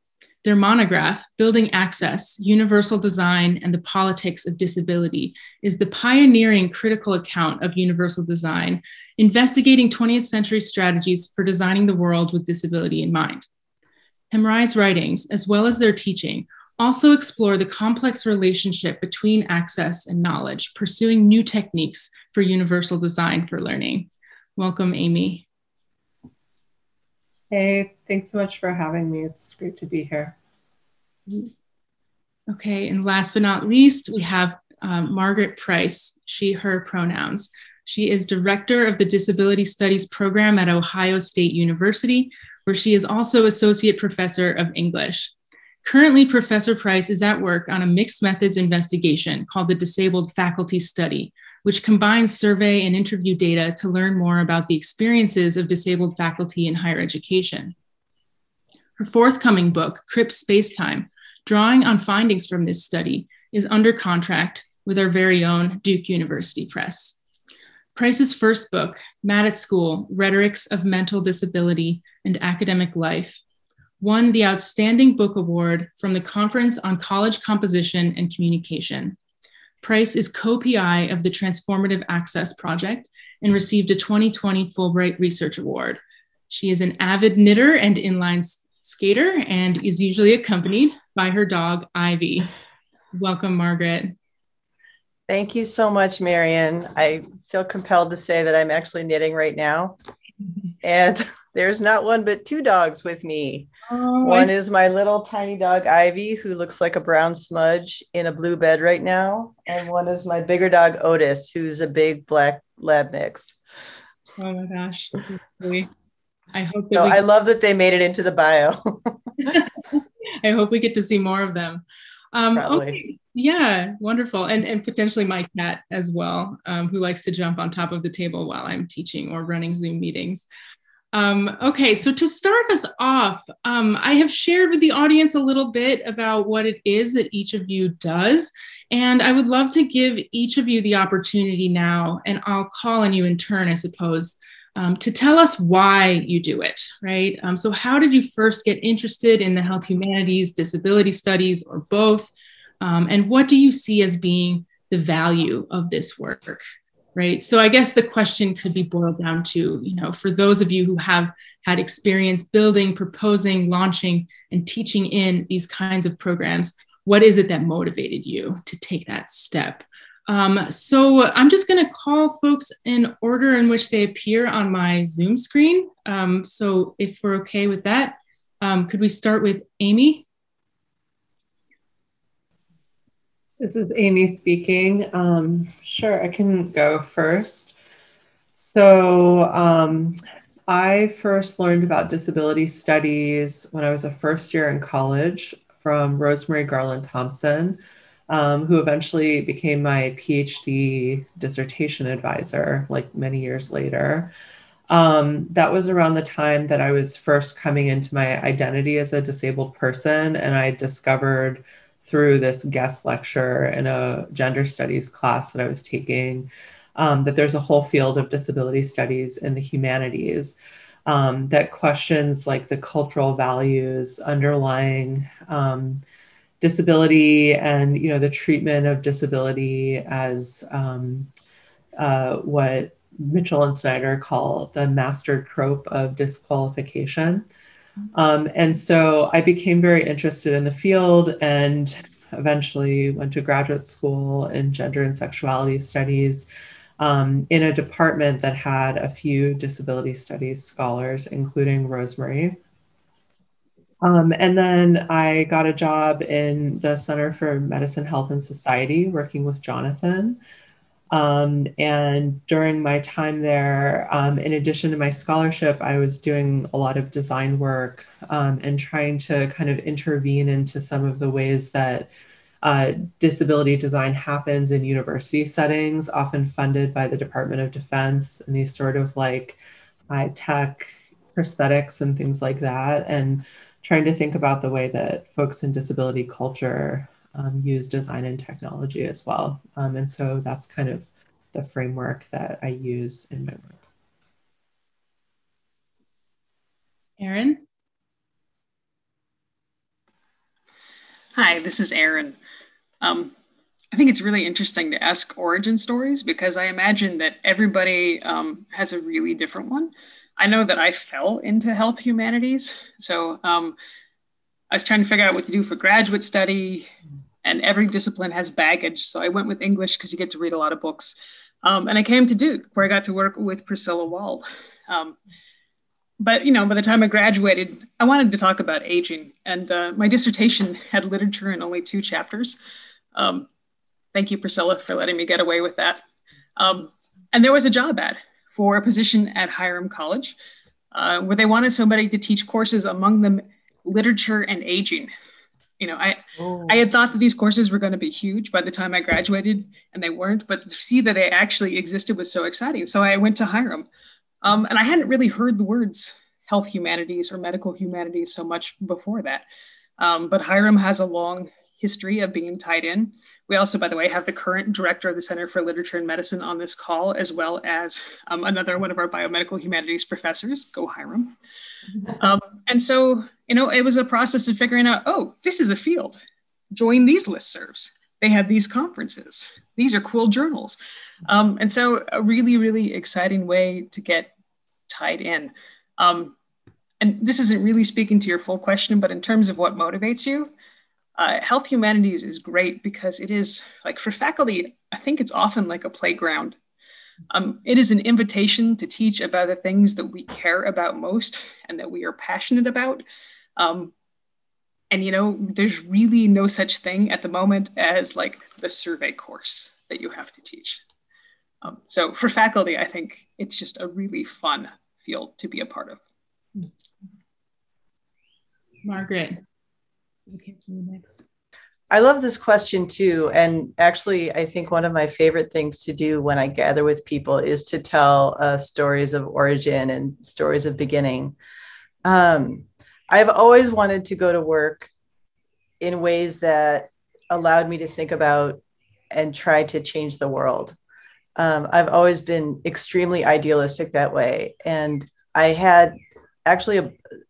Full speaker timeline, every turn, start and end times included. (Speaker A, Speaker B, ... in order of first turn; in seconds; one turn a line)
Speaker A: 0.4-13.5
Speaker A: 14.3-25.5
Speaker B: 27.5-30.4
Speaker A: 32.5-45.3
Speaker A: 45.8-57.7
Speaker A: 59.0-67.2
Speaker A: 68.0-73.4
Speaker A: 74.0-79.2
Speaker A: 79.8-86.0
Speaker A: 86.5-92.5
Speaker A: 93.1-94.1
Speaker C: 95.3-100.0
Speaker C: 100.8-103.7
Speaker A: 103.9-104.5
Speaker C: 104.2-113.6
Speaker A: 114.4-115.9
Speaker A: 116.5-117.2
Speaker C: 116.9-119.5
Speaker A: 120.4-130.5
Speaker C: 122.5-123.0
Speaker A: 131.1-156.6
Speaker A: 157.2-180.3
Speaker B: 183.6-187.8
Speaker B: 188.6-190.2
Speaker B: 190.7-204.3
Speaker B: 204.9-226.0
Speaker B: 226.6-231.3
Speaker B: 232.0-237.4
Speaker B: 238.1-246.5
Speaker B: 247.0-252.6
Speaker B: 254.0-260.4
Speaker B: 261.1-272.1
Speaker B: 272.6-279.6
Speaker B: 280.1-293.8
Speaker A: 297.2-297.6
Speaker D: 301.4-302.4
Speaker D: 303.0-303.3
Speaker D: 303.9-313.8
Speaker D: 314.7-316.9
Speaker D: 317.4-325.2
Speaker D: 326.2-332.6
Speaker D: 333.1-333.5
Speaker D: 334.1-336.0
Speaker D: 336.6-340.4
Speaker D: 340.9-345.1
Speaker D: 345.8-353.9
Speaker D: 354.4-359.4
Speaker D: 360.0-371.4
Speaker D: 372.2-376.2
Speaker D: 376.7-384.3
Speaker D: 384.9-386.4
Speaker D: 387.0-390.5
Speaker D: 391.2-396.6
Speaker D: 397.3-403.0
Speaker D: 403.6-403.9
Speaker D: 404.9-410.8
Speaker D: 411.6-416.0
Speaker A: 418.8-419.4
Speaker A: 420.3-421.2
Speaker C: 421.9-431.4
Speaker C: 432.1-434.9
Speaker C: 435.8-438.6
Speaker C: 439.1-440.8
Speaker C: 441.4-445.9
Speaker C: 446.5-446.9